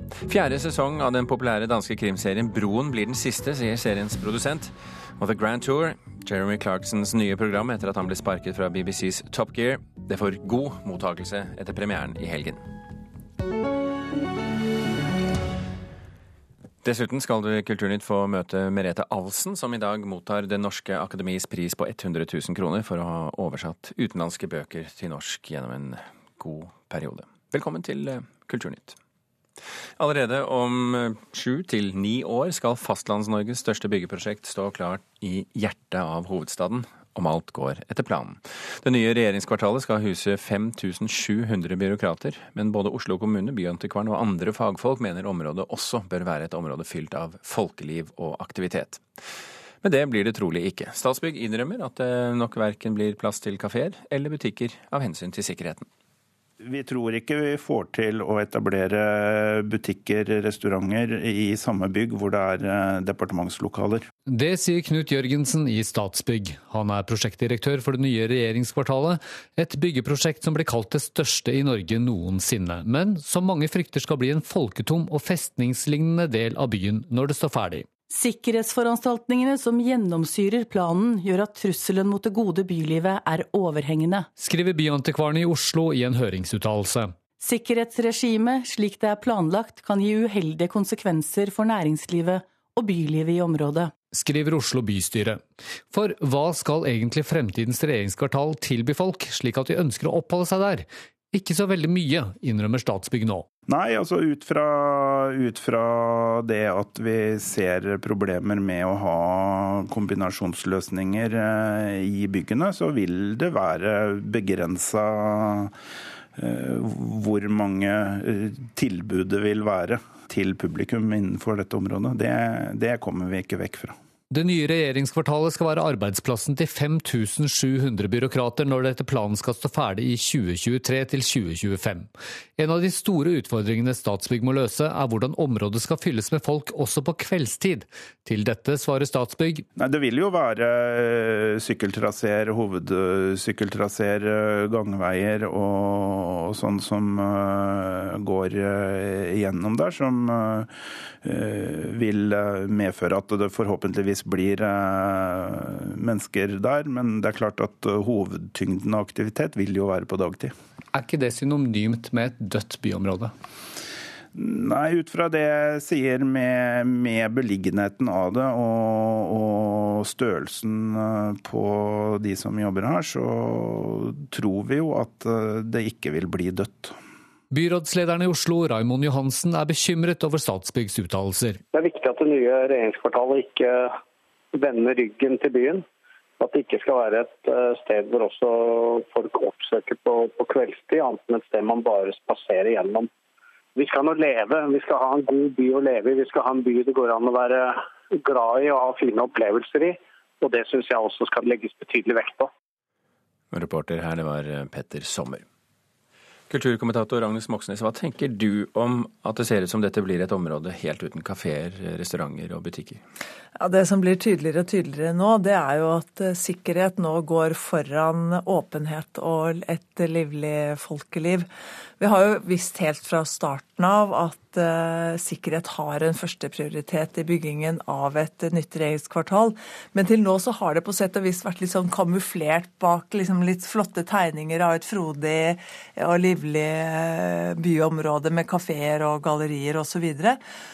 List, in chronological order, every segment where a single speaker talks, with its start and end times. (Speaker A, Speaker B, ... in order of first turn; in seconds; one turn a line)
Speaker A: 0.2-12.6
Speaker A: 16.8-29.0
Speaker A: 30.0-49.0
Speaker A: 49.8-55.9
Speaker B: 56.6-64.0
Speaker C: 64.3-77.9
Speaker D: 78.1-84.3
Speaker C: 84.4-87.1
Speaker D: 87.4-93.9
Speaker C: 94.1-103.5
Speaker B: 103.7-115.7
Speaker B: 116.3-123.9
Speaker C: 124.3-139.6
Speaker B: 139.8-150.7
Speaker B: 151.2-160.5
Speaker C: 160.9-163.3
Speaker B: 164.3-176.9
Speaker C: 177.5-181.6
Speaker E: 181.7-183.9
Speaker E: 184.5-185.8
Speaker E: 186.4-193.1
Speaker E: 193.8-202.5
Speaker A: 203.5-205.4
Speaker A: 206.5-213.0
Speaker F: 213.6-221.5
Speaker F: 222.0-240.4